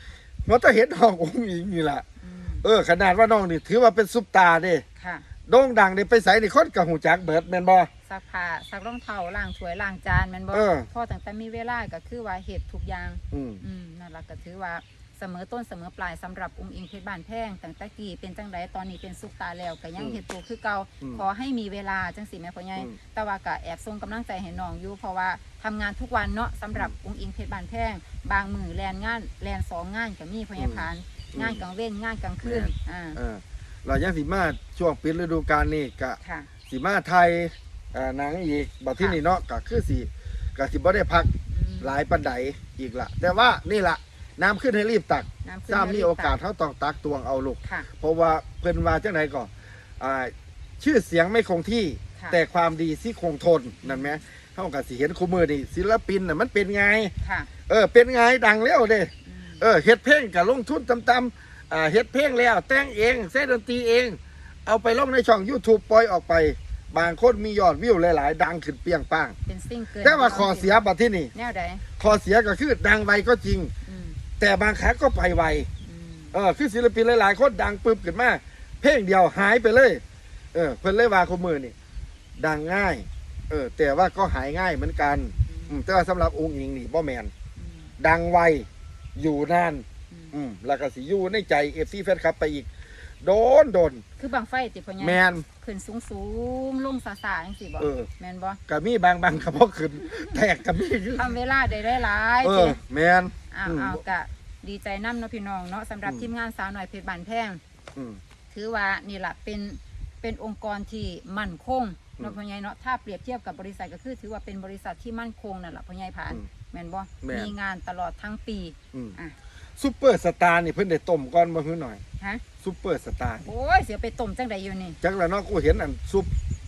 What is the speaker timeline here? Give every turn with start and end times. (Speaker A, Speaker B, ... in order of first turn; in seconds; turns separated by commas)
Speaker A: 0.5-2.0, Speaker B: 2.2-2.6, Speaker A: 2.6-4.8, Speaker B: 5.0-5.2, Speaker A: 5.5-7.9, Speaker B: 8.1-33.2, Speaker A: 10.5-10.9, Speaker A: 13.3-13.6, Speaker A: 30.6-31.6, Speaker A: 32.4-57.1, Speaker B: 36.2-36.5, Speaker B: 41.5-42.0, Speaker B: 45.4-46.4, Speaker B: 53.8-54.1, Speaker B: 57.2-57.5, Speaker A: 57.7-69.3, Speaker B: 59.2-59.6, Speaker B: 69.5-71.8, Speaker A: 70.0-71.3, Speaker A: 72.0-73.7, Speaker B: 73.8-74.2, Speaker A: 74.4-75.7, Speaker B: 75.8-76.3, Speaker A: 76.3-80.0, Speaker A: 80.5-81.7, Speaker A: 82.4-87.3, Speaker B: 85.5-85.8, Speaker B: 87.6-87.9, Speaker A: 88.0-92.7, Speaker A: 93.2-94.0, Speaker B: 94.2-98.6, Speaker A: 95.0-95.5, Speaker A: 97.8-98.1, Speaker A: 98.7-101.3, Speaker B: 101.1-102.8, Speaker A: 102.4-104.0, Speaker B: 103.5-107.6, Speaker A: 107.9-108.2, Speaker B: 108.5-119.3, Speaker A: 117.2-117.5, Speaker A: 119.8-122.0, Speaker A: 122.6-123.5, Speaker B: 123.4-125.0, Speaker A: 125.0-126.3